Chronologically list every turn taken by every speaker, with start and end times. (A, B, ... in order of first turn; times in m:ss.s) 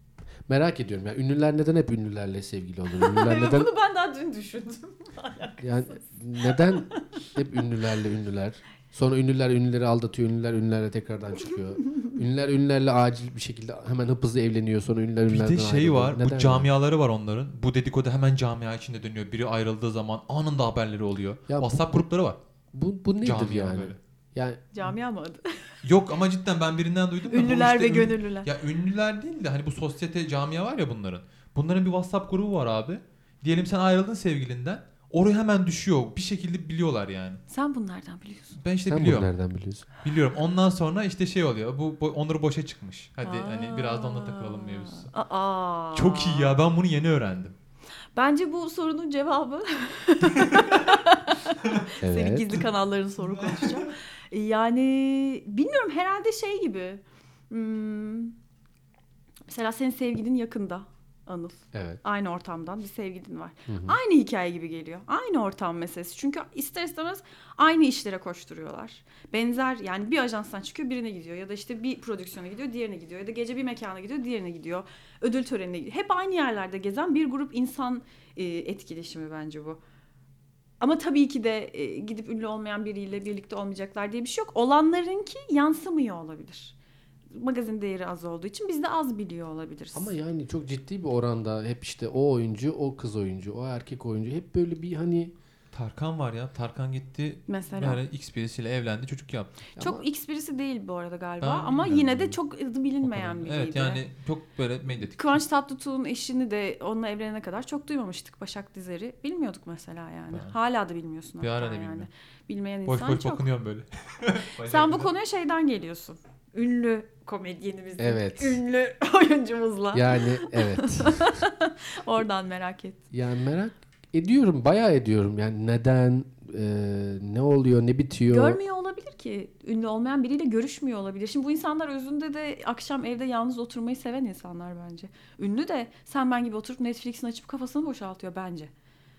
0:00.5-0:03.7 A
0:02.9-0:07.3 B
0:05.6-0:16.7 A
0:15.3-0:22.4 C
0:21.5-0:22.0 A
0:22.7-0:24.6 A
0:23.2-0:24.0 C
0:24.7-0:25.7 B
0:25.8-0:37.4 C
0:27.2-0:28.5 B
0:37.5-0:38.6 B
0:38.6-0:39.3 C
0:38.9-0:39.9 A
0:40.0-0:45.1 C
0:43.2-0:46.6 B
0:45.9-0:47.6 C
0:48.2-0:58.4 B
0:50.4-0:50.9 C
0:52.0-0:52.6 A
0:53.2-0:53.9 C
0:59.5-1:19.8 B
1:01.7-1:02.0 A
1:03.7-1:04.0 A
1:20.8-1:26.8 B
1:27.3-1:30.2 B
1:29.9-1:35.3 A
1:35.7-1:39.6 C
1:37.5-1:38.0 B
1:39.8-1:44.0 B
1:39.8-1:40.0 A
1:41.4-1:42.4 C
1:43.0-1:45.4 C
1:45.2-1:53.5 B
1:51.4-1:52.1 C
1:52.9-1:55.1 C
1:54.6-2:03.0 B
1:58.0-1:58.6 A
1:59.9-2:01.4 A
2:03.1-2:08.6 A
2:08.3-2:18.7 B